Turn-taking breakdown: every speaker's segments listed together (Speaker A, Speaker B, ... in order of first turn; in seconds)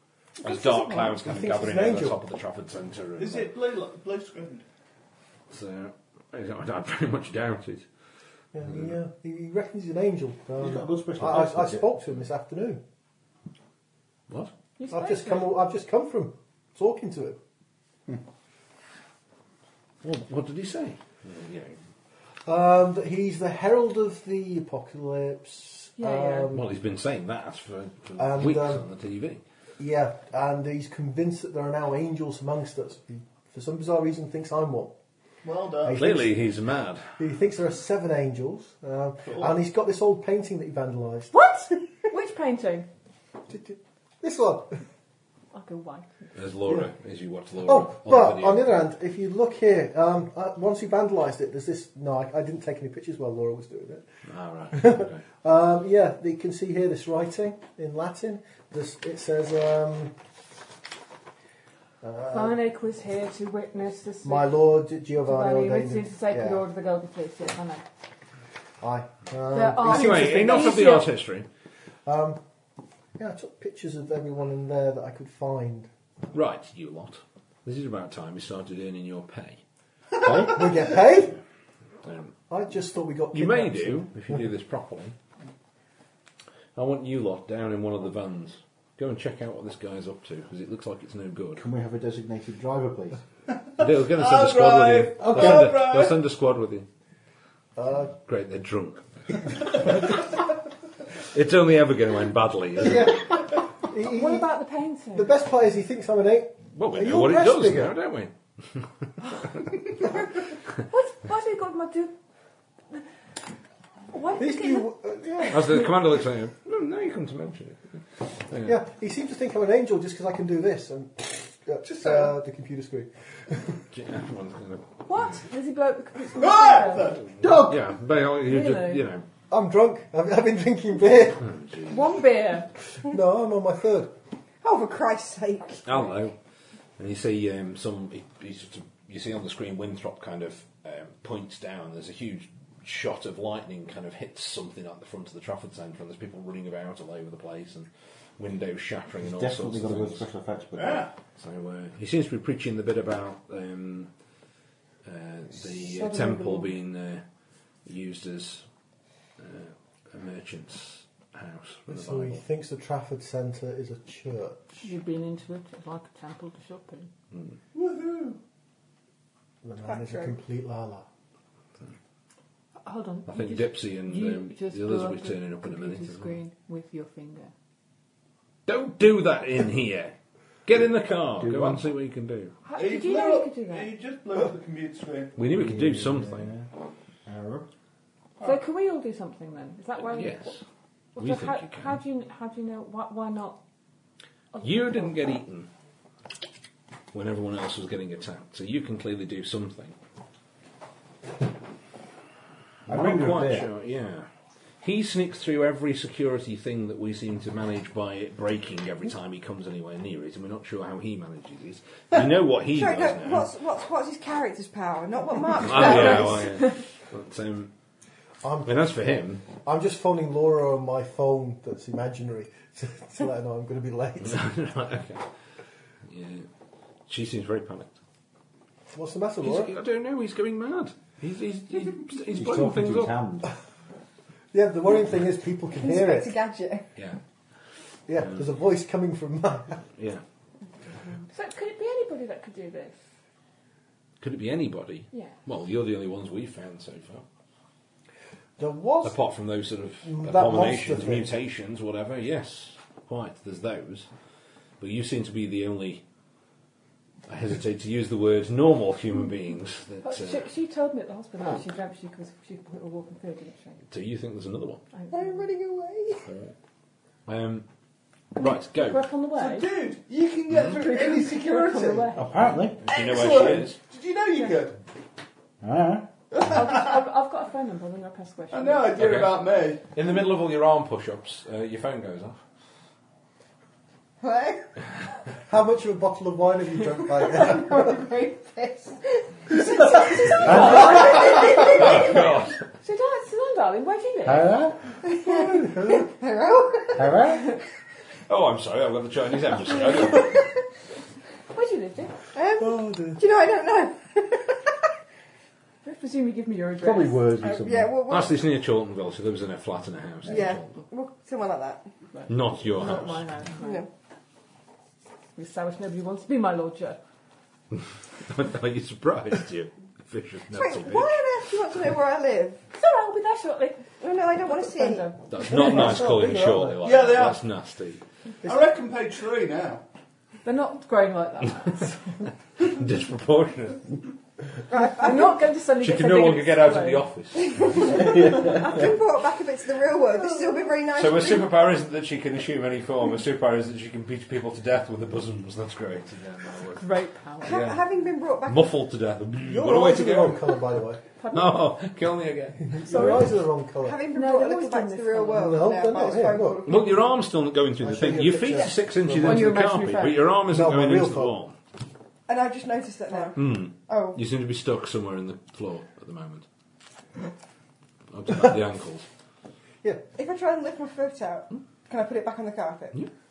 Speaker A: 0.4-3.5, 5.5-7.9, 20.0-21.8, 26.5-29.4, 36.0-37.1, 46.4-48.7, 54.3-55.2, 69.8-71.5, 76.3-79.6, 82.0-82.3, 83.3-85.2, 86.8-91.6, 93.8-96.9, 97.9-100.3, 101.3-103.5, 106.8-108.9, 115.5-118.8, 123.9-125.1, 127.5-129.2, 131.4-132.1, 135.9-136.4, 137.0-150.3, 151.4-154.1, 155.0-157.2, 157.8-158.7, 159.4-162.4, 167.3-167.6, 173.3-176.4, 178.7-180.1, 180.7-182.6, 185.4-186.5, 190.1-190.6, 191.2-192.0, 194.6-195.7, 197.1-200.0, 202.9-204.3, 204.8-213.5, 215.6-217.7, 218.6-219.4, 224.2-225.3, 226.1-226.5, 227.1-228.0, 229.4-233.2, 240.0-240.2, 244.2-247.2, 249.0-254.1, 254.8-256.0, 257.3-260.4, 263.9-264.8, 267.3-267.7, 268.4-269.1, 270.5-270.8, 272.8-273.8, 278.9-282.4, 291.0-292.6, 298.3-300.4, 308.1-310.8, 312.3-313.3, 317.7-321.2, 325.3-328.0, 332.6-333.9, 335.8-337.9, 340.9-346.9, 347.4-347.8, 348.5-350.5, 351.3-353.2, 356.7-361.6, 363.4-366.5, 368.1-369.1
Speaker B: 0.5-0.8, 14.8-15.5, 26.0-26.5, 41.3-42.9, 45.5-46.4, 62.3-64.6, 65.2-67.8, 69.5-71.1, 104.0-105.3, 110.9-112.1, 114.1-114.9, 125.1-127.1, 128.4-129.1, 131.8-132.7, 164.8-167.1, 172.8-177.5, 182.6-183.9, 188.4-190.6, 191.2-193.6, 194.5-195.4, 241.3-242.9, 260.0-263.8, 264.9-265.4, 268.4-269.7, 270.7-272.4, 276.4-279.1, 289.9-292.3, 292.8-294.6, 299.7-300.3, 301.5-302.1, 305.8-307.3, 312.1-313.9, 315.4-317.0, 322.7-323.8, 324.4-326.0, 330.4-332.3, 334.7-337.1, 346.8-347.7, 351.2-351.6, 352.8-353.4, 354.1-355.7, 359.2-360.3
Speaker C: 0.9-2.2, 8.5-12.8, 14.9-17.4, 22.5-26.7, 28.2-28.9, 29.8-34.9, 35.8-36.4, 37.2-41.3, 43.5-44.8, 47.6-54.1, 54.7-60.2, 62.0-62.6, 64.2-66.7, 68.8-71.0, 72.1-72.4, 73.2-75.9, 80.5-81.4, 82.5-84.3, 97.8-98.1, 102.8-104.5, 105.1-108.0, 114.4-115.9, 118.7-123.8, 129.5-131.5, 133.0-134.1, 161.9-164.9, 169.6-171.1, 218.4-224.4, 228.9-229.7, 234.5-236.3, 238.1-239.8, 248.6-249.2, 250.0-251.3, 285.5-287.9, 295.3-296.1, 302.6-303.2, 325.5-326.9, 349.4-351.0, 352.7-354.0, 355.4-356.6, 357.8-359.6, 360.5-361.4
Speaker D: 3.2-4.7, 35.4-36.1, 39.2-39.6, 93.7-96.2, 121.8-122.4, 126.3-127.4, 150.7-151.1, 167.7-168.4, 182.7-185.4, 269.3-272.2, 272.9-274.8, 276.5-277.0, 278.5-279.9, 326.8-327.4, 328.4-329.8
Speaker E: 10.6-11.9, 80.2-80.7, 91.6-93.2, 127.4-127.8, 149.2-151.1, 181.4-181.9, 185.5-186.7, 187.2-187.7, 202.9-203.7, 232.3-233.5, 272.1-272.8, 275.6-276.1, 290.4-291.0, 294.2-294.8, 297.0-297.5, 306.8-308.0, 337.8-338.9
Speaker F: 134.6-135.9, 169.8-170.4, 212.7-216.6, 235.8-236.9, 265.1-266.3, 284.2-284.7, 287.3-292.2, 295.0-297.2, 302.3-304.8, 307.4-308.4, 310.2-311.9, 313.6-313.9, 320.5-322.6, 324.0-325.1, 334.7-335.5, 337.4-341.5, 347.4-348.7, 353.8-356.9, 362.3-364.2, 370.2-373.0